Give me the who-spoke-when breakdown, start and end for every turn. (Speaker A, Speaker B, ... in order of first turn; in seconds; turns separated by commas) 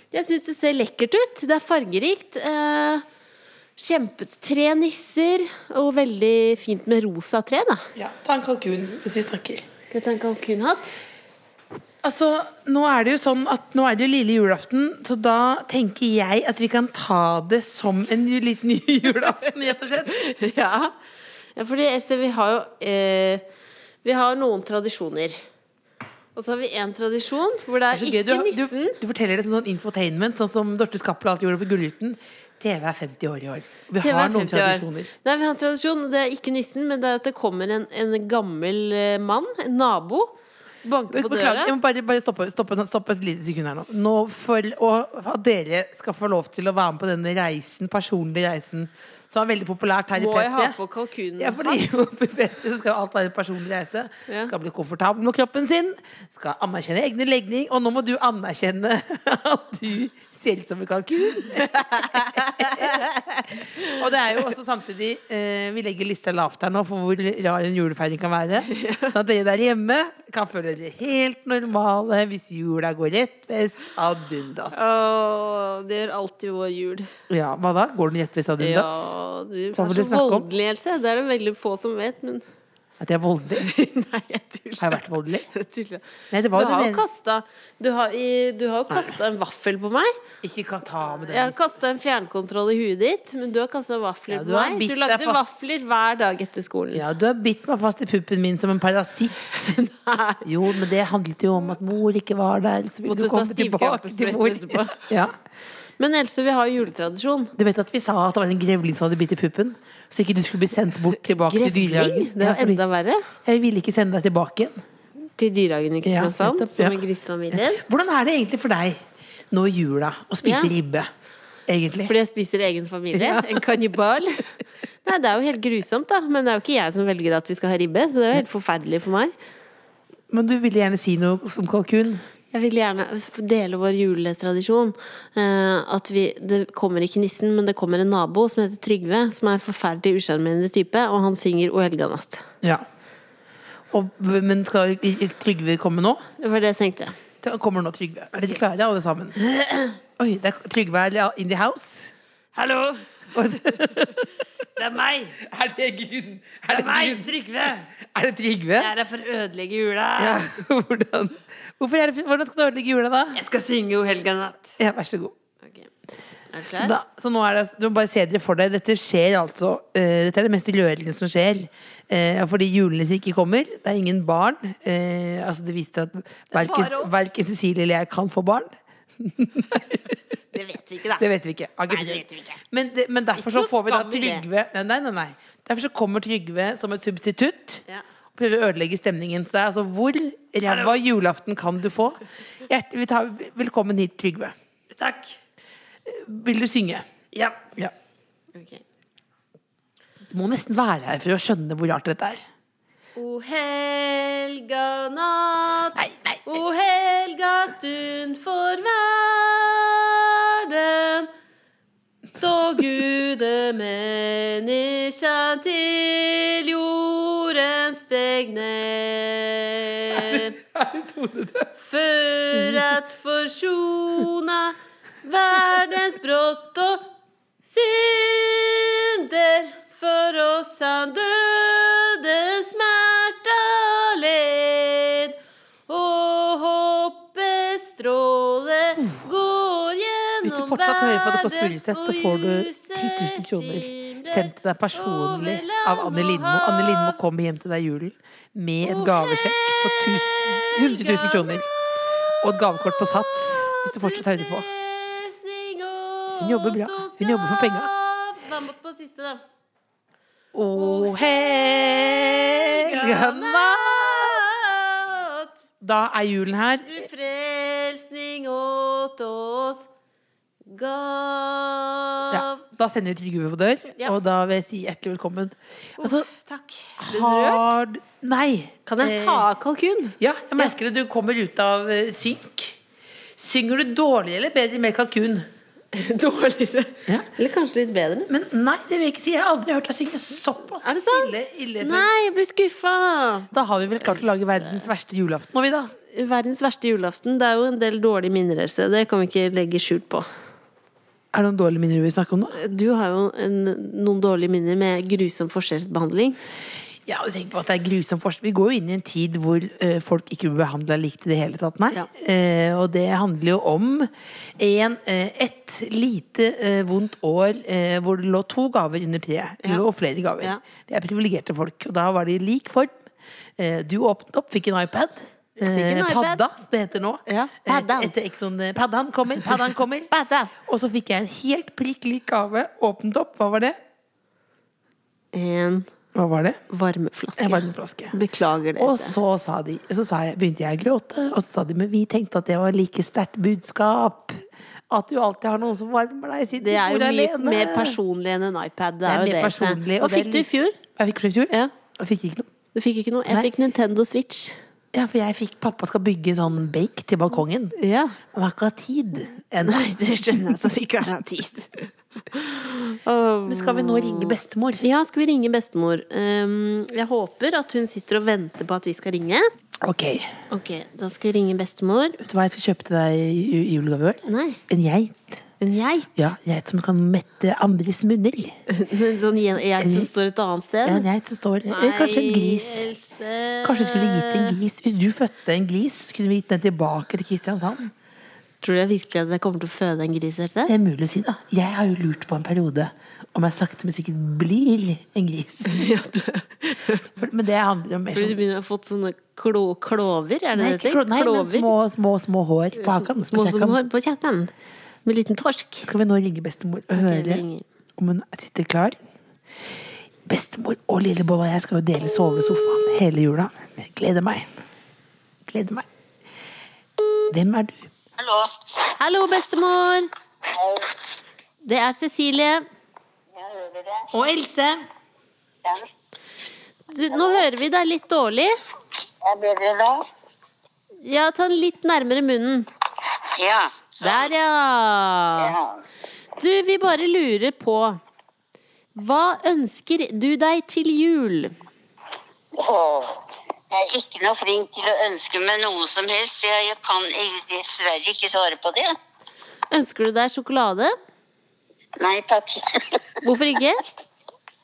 Speaker A: 0.1-3.0, Speaker A: 3.8-7.9, Speaker B: 8.0-9.7, Speaker A: 9.9-10.9, Speaker B: 12.0-20.3, Speaker A: 20.1-20.9, Speaker A: 21.6-23.4, Speaker A: 24.0-25.4, Speaker A: 26.4-29.0, Speaker B: 27.9-35.1, Speaker A: 34.0-41.7, Speaker B: 41.1-50.8, Speaker A: 50.1-52.0, Speaker B: 51.4-75.0, Speaker A: 54.3-54.5, Speaker A: 61.6-64.0, Speaker A: 68.7-69.1, Speaker A: 74.7-77.1, Speaker B: 77.3-79.1, Speaker A: 78.6-82.4, Speaker B: 79.7-80.5, Speaker B: 83.0-83.7, Speaker A: 83.6-90.2, Speaker B: 84.8-85.5, Speaker B: 86.3-87.0, Speaker B: 88.9-89.2, Speaker B: 90.4-91.6, Speaker A: 91.3-97.0, Speaker B: 94.3-95.4, Speaker B: 96.9-99.8, Speaker A: 99.5-100.5, Speaker B: 100.4-105.3, Speaker A: 103.0-105.1, Speaker A: 106.0-107.5, Speaker B: 107.6-112.8, Speaker A: 111.3-113.3, Speaker B: 113.5-114.8, Speaker A: 115.4-117.8, Speaker B: 116.0-117.0, Speaker B: 117.5-119.0, Speaker B: 119.5-121.1, Speaker A: 120.4-120.7, Speaker B: 121.7-122.1, Speaker A: 122.1-124.5, Speaker B: 123.1-123.7, Speaker A: 125.0-129.3, Speaker B: 130.3-132.2, Speaker A: 132.5-142.5, Speaker B: 143.9-146.2, Speaker A: 146.4-147.2, Speaker B: 147.4-149.4, Speaker A: 149.5-150.0, Speaker B: 150.2-152.1, Speaker A: 152.6-153.1, Speaker B: 153.3-154.3, Speaker A: 154.8-155.4, Speaker B: 155.4-157.3, Speaker A: 156.7-157.9, Speaker B: 157.9-158.9, Speaker A: 158.8-160.5, Speaker B: 160.2-163.4, Speaker A: 163.3-164.8, Speaker B: 164.8-165.3, Speaker A: 166.5-166.9, Speaker B: 166.7-180.2, Speaker A: 176.5-177.2, Speaker A: 180.5-181.3, Speaker B: 181.2-187.8, Speaker A: 181.9-182.6, Speaker A: 183.4-184.4, Speaker B: 188.3-194.6, Speaker A: 190.7-190.9, Speaker A: 194.9-195.4, Speaker B: 196.1-197.1, Speaker A: 197.3-197.7, Speaker A: 198.5-198.8, Speaker B: 200.3-202.4, Speaker A: 203.2-211.3, Speaker B: 205.9-206.5, Speaker A: 212.4-220.6, Speaker B: 220.1-221.7, Speaker A: 221.8-227.1, Speaker B: 222.6-222.8, Speaker A: 227.7-235.4, Speaker A: 235.9-247.2, Speaker B: 240.4-251.7, Speaker A: 248.8-251.6, Speaker B: 252.4-254.7, Speaker A: 252.8-259.4, Speaker B: 256.4-257.9, Speaker B: 260.5-264.5, Speaker A: 260.8-265.5, Speaker B: 265.8-267.1, Speaker A: 266.9-269.9, Speaker A: 270.6-272.6, Speaker B: 272.3-276.3, Speaker A: 276.0-277.8, Speaker B: 277.0-279.5, Speaker A: 278.9-280.7, Speaker B: 280.2-282.8, Speaker B: 283.4-285.5, Speaker A: 285.9-288.3, Speaker B: 288.3-292.1, Speaker A: 290.8-294.9, Speaker B: 293.5-295.9, Speaker A: 296.1-300.3, Speaker B: 301.3-302.6, Speaker A: 302.5-306.4, Speaker B: 307.1-323.0, Speaker B: 323.6-333.8, Speaker A: 325.6-326.5, Speaker A: 327.3-328.1, Speaker A: 330.1-330.5, Speaker A: 335.3-335.9, Speaker B: 336.1-336.6, Speaker A: 336.7-339.1, Speaker B: 337.4-338.1, Speaker B: 338.8-348.0, Speaker A: 346.6-350.8, Speaker B: 349.1-352.5, Speaker A: 352.8-354.6, Speaker B: 354.9-357.8, Speaker A: 357.8-358.2, Speaker B: 358.3-360.0, Speaker A: 359.6-369.5, Speaker B: 363.5-364.8, Speaker B: 369.8-370.3, Speaker A: 370.5-372.2, Speaker B: 372.2-375.4, Speaker A: 374.3-374.6, Speaker A: 375.6-376.3, Speaker B: 376.2-378.6, Speaker A: 378.7-381.1, Speaker B: 379.8-380.1, Speaker B: 380.9-382.9, Speaker A: 381.7-384.6, Speaker B: 383.6-387.9, Speaker A: 388.6-390.7, Speaker B: 390.7-395.9, Speaker A: 395.6-397.1, Speaker B: 397.1-398.4, Speaker A: 398.1-401.7, Speaker B: 400.6-403.8, Speaker A: 402.8-404.5, Speaker A: 405.1-405.9, Speaker B: 405.9-407.4, Speaker A: 406.9-407.6, Speaker B: 408.0-409.0, Speaker B: 410.3-414.5, Speaker B: 415.5-415.9, Speaker B: 417.3-417.9, Speaker C: 418.2-418.9, Speaker A: 419.0-420.1, Speaker C: 420.5-420.9, Speaker A: 421.6-422.6, Speaker C: 423.3-424.1, Speaker B: 424.1-424.8, Speaker A: 426.9-428.6, Speaker C: 429.2-430.1, Speaker A: 431.0-432.7, Speaker C: 433.3-434.3, Speaker A: 434.0-435.6, Speaker C: 435.4-435.8, Speaker A: 436.4-438.0, Speaker A: 438.9-441.5, Speaker C: 442.5-449.0, Speaker A: 449.7-450.9, Speaker C: 452.0-453.1, Speaker A: 453.2-453.8